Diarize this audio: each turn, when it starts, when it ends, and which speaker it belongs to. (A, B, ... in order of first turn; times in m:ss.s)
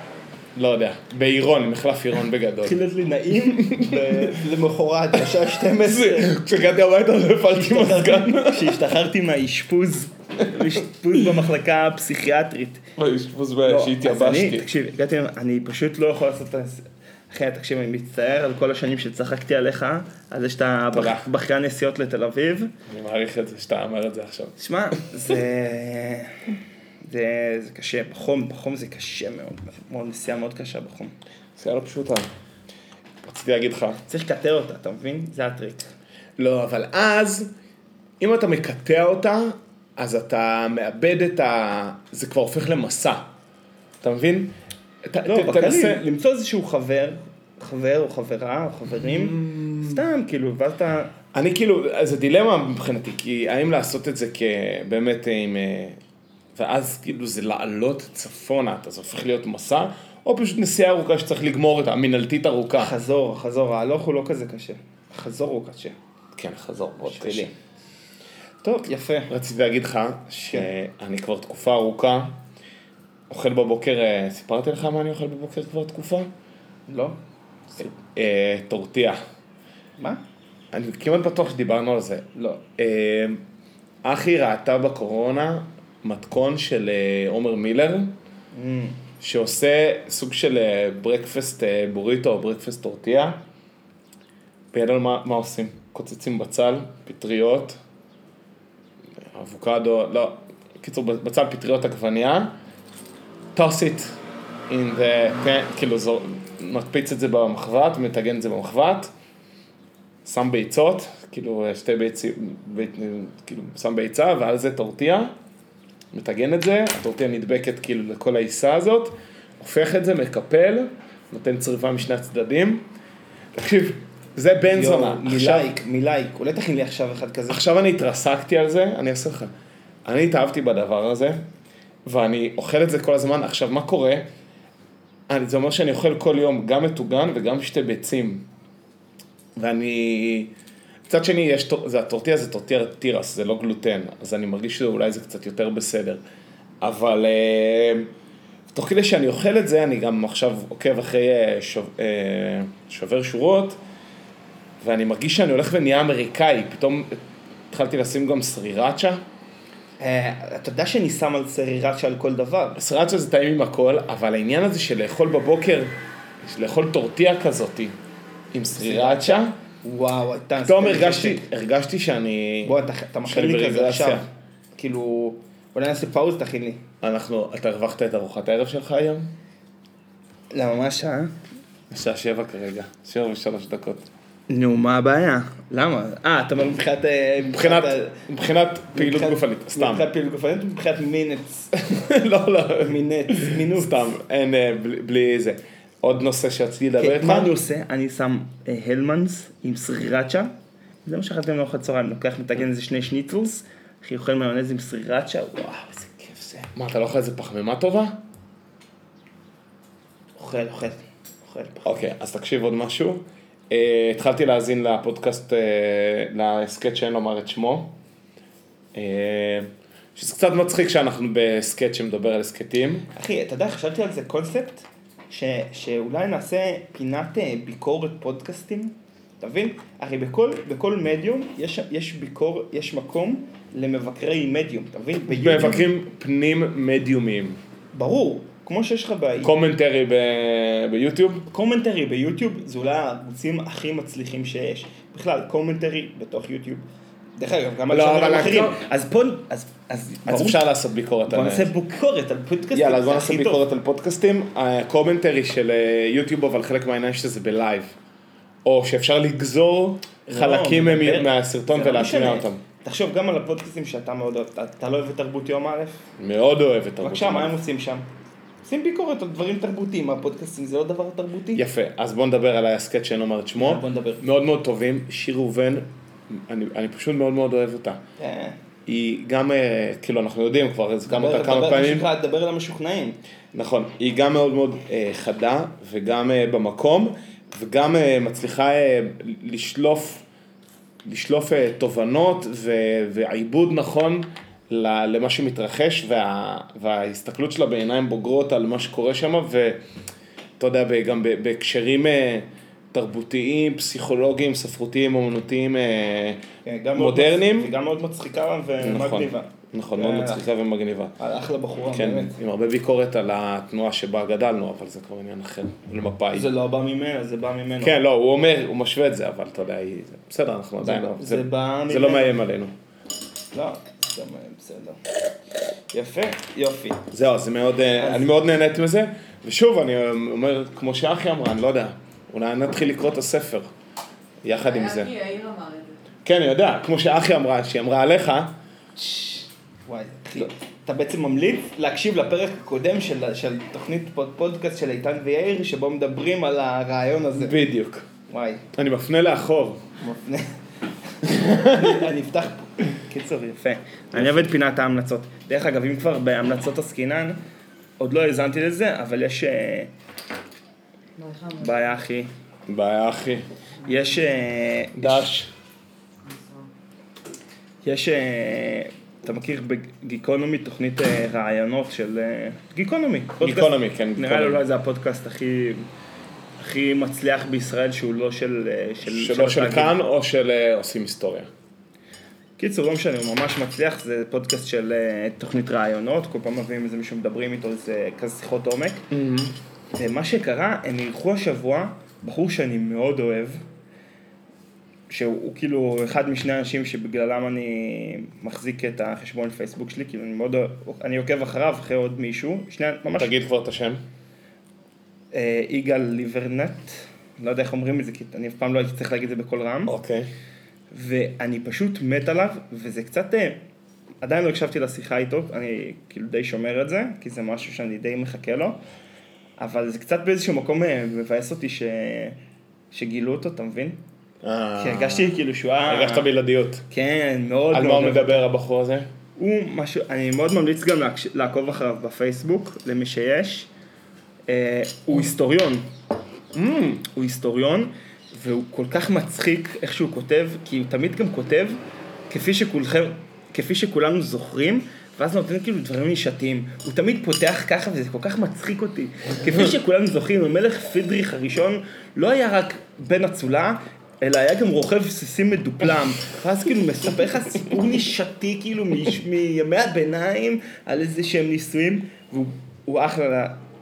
0:00.5-0:02.8 A
0:02.6-0:06.3 B
0:03.3-0:04.4 A
0:05.7-0:08.8 A
0:07.5-0:12.8 B
0:13.0-0:14.7 A
0:13.6-0:22.7 B
0:20.9-0:21.2 A
0:22.9-0:24.5 A
0:24.6-0:26.5 B
0:27.0-0:31.1 B
0:31.6-0:32.3 A
0:33.2-0:34.0 A
0:34.1-0:35.9 B
0:36.4-0:37.5 A
0:38.2-0:43.3 A
0:44.0-0:46.0 A
0:45.2-0:51.1 B
0:49.0-0:50.0 A
0:51.3-0:56.0 A
0:56.5-1:02.9 A
1:02.8-1:06.0 B
1:06.4-1:07.5 A
1:07.0-1:07.5 B
1:08.6-1:09.3 B
1:09.3-1:12.4 A
1:10.4-1:10.7 B
1:13.3-1:16.3 A
1:16.9-1:17.2 B
1:17.8-1:19.2 A
1:20.7-1:23.4 A
1:22.3-1:22.6 B
1:24.0-1:28.1 A
1:28.5-1:29.0 B
1:29.2-1:33.4 A
1:34.7-1:37.8 A
1:39.3-1:42.5 A
1:43.5-1:44.2 A
1:44.7-1:49.1 A
1:50.2-1:55.3 A
1:56.1-2:02.8 A
2:03.5-2:05.7 A
2:04.7-2:07.6 B
2:07.5-2:09.5 A
2:10.0-2:11.4 A
2:12.0-2:14.3 A
2:15.3-2:18.5 A
2:19.6-2:20.5 A
2:21.1-2:26.2 A
2:26.8-2:28.1 A
2:28.7-2:33.8 A
2:34.8-2:39.2 A
2:40.0-2:42.8 B
2:42.8-2:47.9 A
2:48.5-2:49.5 A
2:48.7-2:51.4 B
2:50.6-2:52.7 A
2:52.6-2:56.8 B
2:53.2-2:54.2 A
2:57.0-2:59.3 A
3:00.5-3:01.3 B
3:01.9-3:04.1 A
3:04.5-3:08.2 B
3:07.5-3:10.0 A
3:08.9-3:11.7 B
3:11.8-3:17.5 A
3:12.8-3:14.1 B
3:17.0-3:20.5 B
3:21.0-3:26.7 B
3:26.7-3:28.2 A
3:30.4-3:32.0 B
3:31.8-3:37.9 A
3:38.9-3:43.0 A
3:43.1-3:55.9 B
3:55.3-3:57.6 A
3:57.9-3:59.5 B
3:59.4-4:01.4 A
4:01.5-4:06.8 B
4:07.4-4:10.6 B
4:07.9-4:08.8 A
4:10.3-4:11.7 A
4:11.2-4:13.6 B
4:12.7-4:17.9 A
4:18.6-4:22.6 A
4:20.3-4:26.0 B
4:26.2-4:27.6 A
4:27.0-4:28.1 B
4:28.6-4:31.6 B
4:31.5-4:38.0 A
4:33.6-4:34.2 B
4:38.2-4:38.6 B
4:38.8-4:42.1 A
4:41.0-4:43.2 B
4:43.5-4:50.2 A
4:51.0-4:59.8 A
5:00.6-5:06.4 A
5:06.6-5:10.4 B
5:07.0-5:07.7 A
5:08.8-5:11.1 A
5:11.2-5:12.4 B
5:11.9-5:16.5 A
5:16.3-5:18.0 B
5:17.8-5:22.7 A
5:20.8-5:22.4 B
5:23.5-5:25.0 B
5:25.9-5:27.1 B
5:27.1-5:33.7 A
5:27.9-5:28.5 B
5:34.4-5:35.2 A
5:34.6-5:36.0 C
5:36.2-5:38.6 A
5:39.1-5:47.6 B
5:47.4-5:48.1 A
5:48.3-5:48.6 B
5:48.7-5:49.8 A
5:50.0-5:50.5 B
5:51.2-5:57.4 B
5:51.2-5:52.0 A
5:54.1-5:54.5 A
5:58.0-5:59.9 B
6:01.2-6:01.6 C
6:01.5-6:02.3 B
6:02.7-6:03.4 A
6:03.8-6:05.3 B
6:05.0-6:05.5 A
6:06.2-6:06.7 C
6:07.8-6:15.8 B
6:13.4-6:14.6 A
6:16.6-6:19.9 B
6:19.0-6:21.5 A
6:22.6-6:29.1 B
6:29.1-6:29.5 A
6:29.9-6:33.6 B
6:35.1-6:43.3 B
6:43.2-6:44.0 A
6:45.3-6:49.9 B
6:49.9-6:50.3 A
6:50.9-6:53.6 B
6:54.2-6:58.8 B
6:59.6-7:02.4 B
7:02.9-7:04.0 B
7:04.4-7:05.3 A
7:04.8-7:06.3 B
7:05.8-7:06.8 A
7:06.9-7:08.5 B
7:07.7-7:09.1 A
7:09.4-7:13.7 B
7:14.5-7:15.9 B
7:16.5-7:17.0 A
7:17.0-7:43.6 B